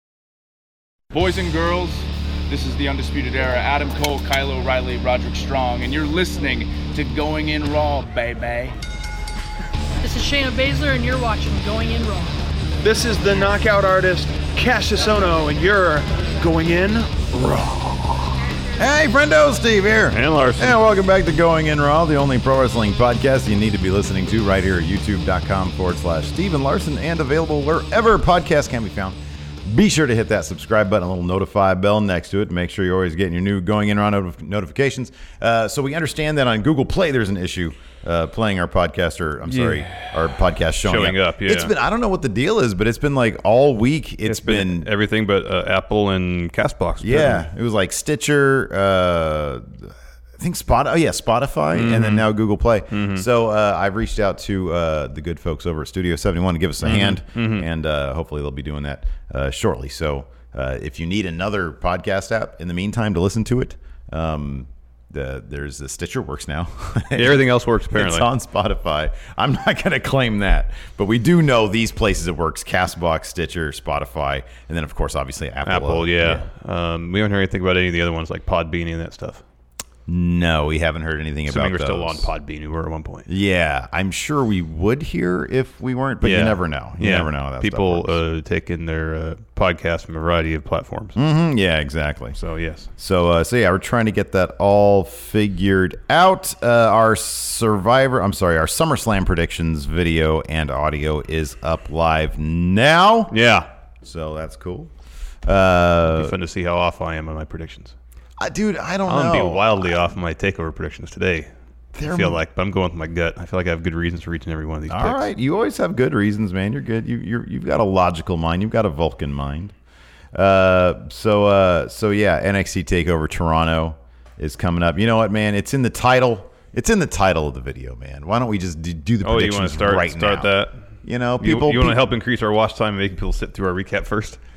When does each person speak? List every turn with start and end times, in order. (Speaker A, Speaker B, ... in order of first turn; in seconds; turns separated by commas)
Speaker A: 1.1-8.8, Speaker B: 10.0-12.4, Speaker C: 12.8-17.2, Speaker D: 17.3-18.0, Speaker D: 18.8-44.9, Speaker E: 20.1-20.8, Speaker E: 39.5-41.7, Speaker E: 44.3-47.5, Speaker D: 47.0-76.5, Speaker E: 51.7-52.3, Speaker E: 52.9-53.3, Speaker E: 56.8-57.7, Speaker E: 67.1-68.3, Speaker E: 75.7-79.4, Speaker D: 80.1-82.3, Speaker E: 81.5-83.3, Speaker D: 83.3-88.2, Speaker E: 86.2-91.2, Speaker D: 91.2-92.4, Speaker E: 92.4-92.9, Speaker D: 93.0-103.3, Speaker E: 103.3-103.7, Speaker D: 104.0-104.9, Speaker D: 105.5-106.3, Speaker E: 106.1-108.0, Speaker D: 108.4-109.9, Speaker E: 109.1-111.5, Speaker D: 112.0-112.4, Speaker E: 112.0-115.3, Speaker D: 114.9-119.7, Speaker D: 120.3-130.5, Speaker E: 129.2-130.8, Speaker D: 131.1-132.0, Speaker E: 131.4-134.4